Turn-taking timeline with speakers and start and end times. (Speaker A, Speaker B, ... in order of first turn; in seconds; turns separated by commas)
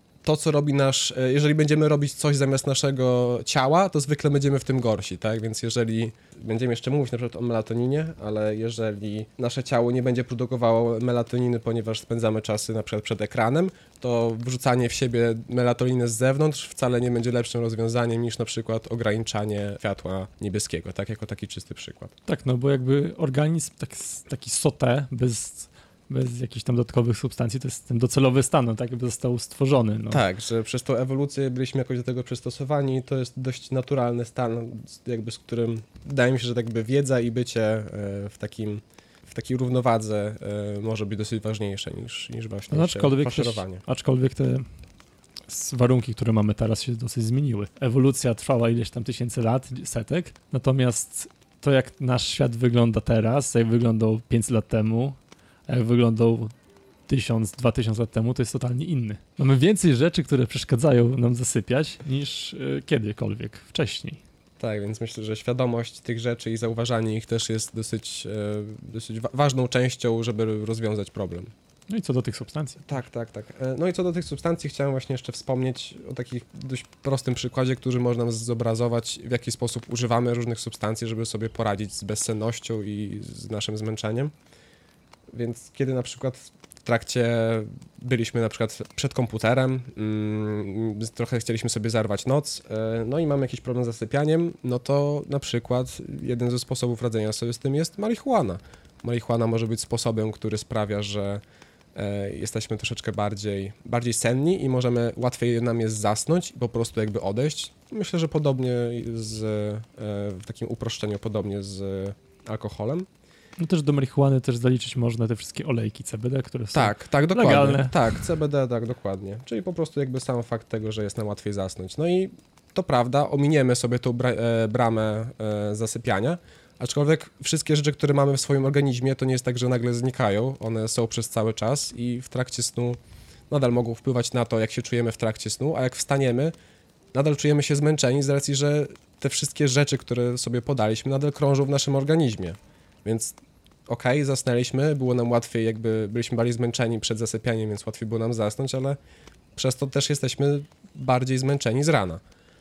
Speaker A: 0.2-22.1, Speaker B: 22.3-30.2, Speaker A: 30.1-43.8, Speaker B: 42.7-44.6, Speaker B: 45.5-55.2, Speaker B: 55.7-56.5, Speaker B: 57.1-64.2, Speaker A: 64.6-71.5, Speaker B: 71.9-72.9, Speaker A: 72.8-84.3, Speaker A: 85.3-101.4, Speaker A: 102.0-113.1, Speaker B: 113.6-118.3, Speaker A: 116.7-133.0, Speaker A: 133.5-136.5, Speaker A: 137.1-143.4, Speaker A: 143.9-149.0, Speaker A: 149.6-152.2